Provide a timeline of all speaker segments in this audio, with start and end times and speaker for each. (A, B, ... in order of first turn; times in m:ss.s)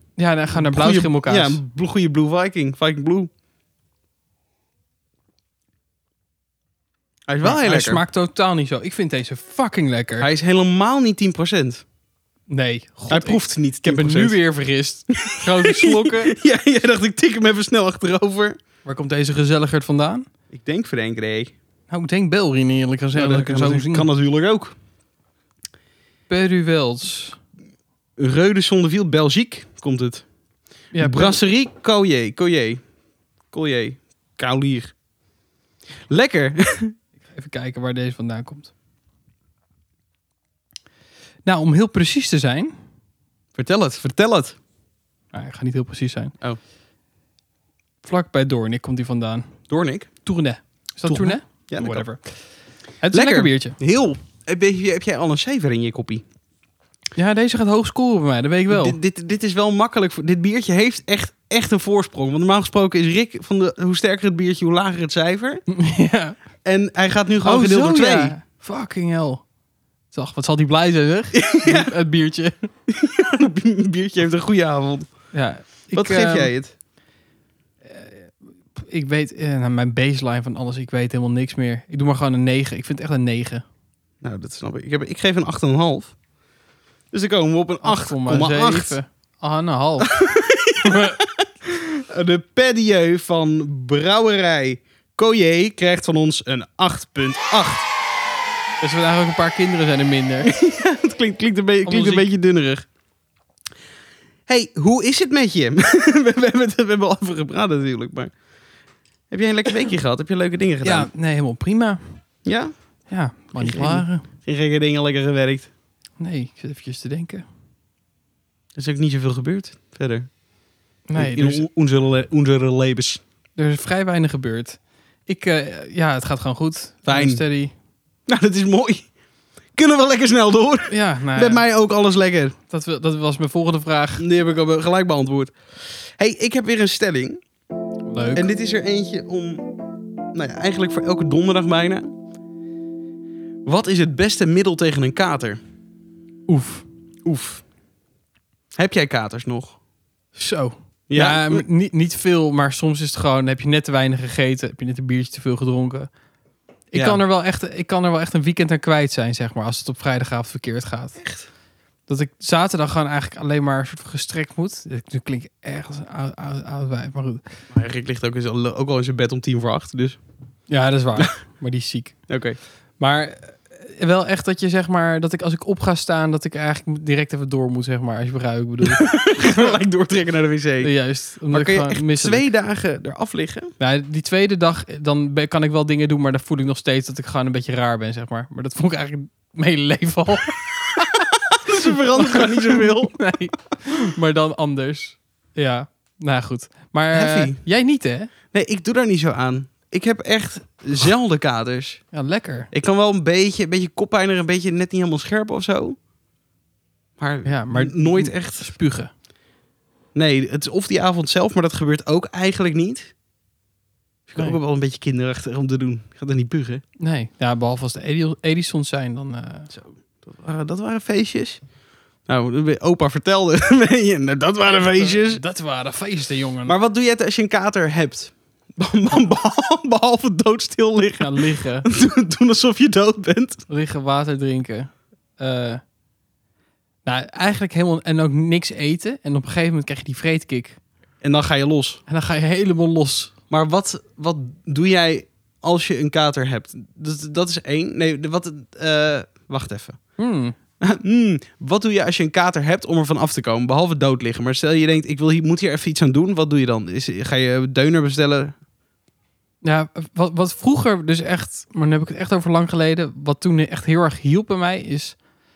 0:00.2-0:01.6 A
0:00.5-0:03.3 B
0:07.3-0:08.0 B
0:07.4-0:10.2 A
0:10.2-0:11.8 B
0:12.5-0:16.4 A
0:13.1-0:14.4 B
0:15.1-0:18.6 B
0:18.8-0:20.3 A
0:20.5-0:21.5 B
0:21.9-0:24.1 A
0:23.1-0:24.7 B
0:26.3-0:27.4 A
0:28.2-0:30.2 B
0:30.9-0:31.4 A
0:31.0-0:32.8 B
0:33.5-0:34.9 B
0:36.1-0:36.9 B
0:37.2-0:38.7 A
0:41.4-0:42.8 A
0:43.5-0:44.6 B
0:45.3-0:46.3 A
0:48.0-0:49.6 A
0:49.7-0:50.1 B
0:50.2-0:52.2 A
0:51.0-0:52.1 B
0:53.0-0:53.8 A
0:53.1-0:56.2 B
0:57.2-0:59.0 A
0:58.7-1:05.6 B
1:05.7-1:06.4 A
1:06.6-1:08.4 B
1:07.4-1:09.4 A
1:10.1-1:12.7 A
1:11.3-1:11.9 B
1:12.9-1:15.3 B
1:15.3-1:16.5 A
1:15.9-1:16.7 B
1:17.8-1:23.6 A
1:24.2-1:26.1 B
1:27.1-1:29.0 B
1:27.8-1:30.1 A
1:30.0-1:37.8 B
1:30.8-1:31.2 A
1:38.8-1:40.5 A
1:40.4-1:42.8 B
1:41.8-1:42.3 A
1:44.5-1:48.3 B
1:49.3-1:51.1 B
1:50.8-1:52.2 A
1:52.4-1:52.7 B
1:53.1-1:54.2 A
1:53.5-1:55.7 B
1:56.2-1:57.4 A
1:58.8-2:00.3 B
2:01.1-2:01.6 A
2:01.1-2:03.2 B
2:03.6-2:07.7 A
2:07.1-2:07.4 B
2:08.3-2:09.1 B
2:09.7-2:12.5 B
2:10.9-2:11.6 A
2:12.7-2:14.2 A
2:14.2-2:15.5 B
2:16.0-2:17.4 B
2:18.0-2:18.5 A
2:18.3-2:19.6 B
2:20.3-2:22.1 B
2:23.6-2:25.6 B
2:26.5-2:26.8 A
2:27.2-2:27.6 B
2:28.7-2:29.8 B
2:30.4-2:36.1 A
2:31.1-2:31.6 B
2:36.9-2:41.2 A
2:36.9-2:37.2 B
2:41.2-2:41.4 B
2:42.1-2:47.4 A
2:47.7-2:50.2 B
2:50.7-2:52.2 A
2:52.3-2:52.6 B
2:53.0-2:59.7 A
2:58.9-3:03.7 B
3:00.8-3:02.4 A
3:03.8-3:11.0 A
3:11.5-3:13.2 B
3:12.2-3:18.3 A
3:17.1-3:17.7 B
3:18.5-3:22.1 B
3:22.1-3:22.7 A
3:22.7-3:26.0 B
3:27.2-3:28.7 B
3:27.4-3:29.1 A
3:30.1-3:33.1 B
3:34.3-3:36.8 B
3:37.0-3:39.7 A
3:39.7-3:41.6 B
3:42.2-3:45.4 B
3:45.0-3:46.7 A
3:46.7-3:53.6 B
3:51.2-3:51.9 A
3:53.7-3:55.8 A
3:57.0-4:00.8 A
4:01.2-4:02.0 B
4:02.1-4:03.3 A
4:03.5-4:10.1 B
4:10.2-4:10.5 A
4:10.8-4:18.5 B
4:19.6-4:25.2 A